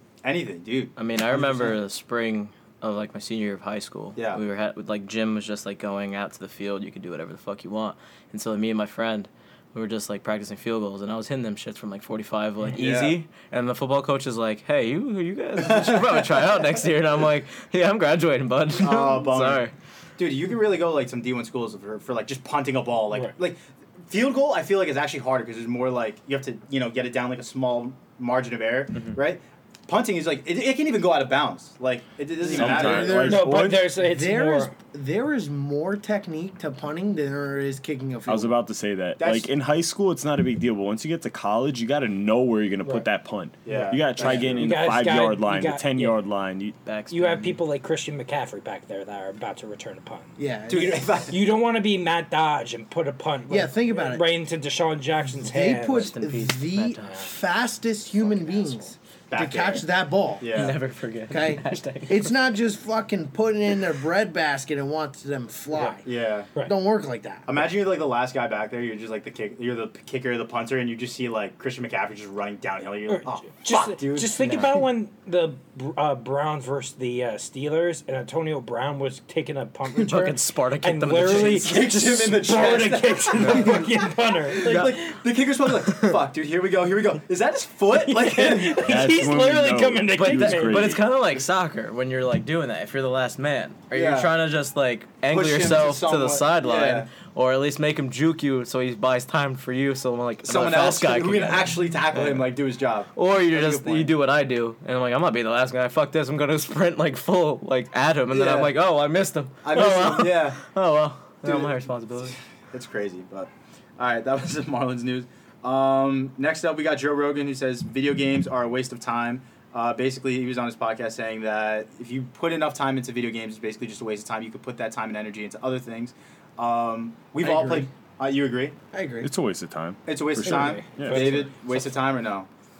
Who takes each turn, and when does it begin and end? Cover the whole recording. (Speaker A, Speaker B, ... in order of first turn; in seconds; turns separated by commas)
Speaker A: 0.2-1.8, Speaker B: 0.9-19.7, Speaker A: 4.2-4.4, Speaker A: 12.7-13.2, Speaker A: 15.6-16.4, Speaker A: 18.7-19.6, Speaker A: 20.2-33.4, Speaker C: 32.5-38.6, Speaker D: 32.5-34.0, Speaker E: 33.2-34.7, Speaker D: 38.3-46.8, Speaker A: 39.2-39.5, Speaker A: 43.6-44.6, Speaker E: 44.2-46.2, Speaker B: 46.8-47.6, Speaker E: 47.1-56.1, Speaker C: 50.4-51.2, Speaker A: 50.7-51.4, Speaker C: 53.5-54.4, Speaker C: 55.4-60.5, Speaker B: 55.9-57.3, Speaker E: 58.2-58.9, Speaker A: 59.3-59.9, Speaker A: 60.4-60.8, Speaker B: 60.5-62.3, Speaker C: 61.3-66.0, Speaker E: 65.7-66.0, Speaker A: 66.0-66.5, Speaker C: 66.6-67.6, Speaker A: 67.5-74.8, Speaker E: 73.1-85.2, Speaker B: 80.0-82.0, Speaker A: 81.3-88.9, Speaker B: 84.7-84.9, Speaker B: 85.9-86.2, Speaker E: 88.1-90.9, Speaker D: 88.8-91.1, Speaker B: 90.1-102.5, Speaker A: 93.9-94.3, Speaker A: 95.3-97.1, Speaker A: 100.4-104.1, Speaker B: 103.1-112.3, Speaker A: 108.3-108.7, Speaker A: 109.6-110.6, Speaker A: 111.4-111.8, Speaker A: 112.7-128.8, Speaker C: 127.4-127.8, Speaker C: 128.9-129.3, Speaker D: 129.2-131.4, Speaker A: 130.1-132.5, Speaker E: 130.4-131.5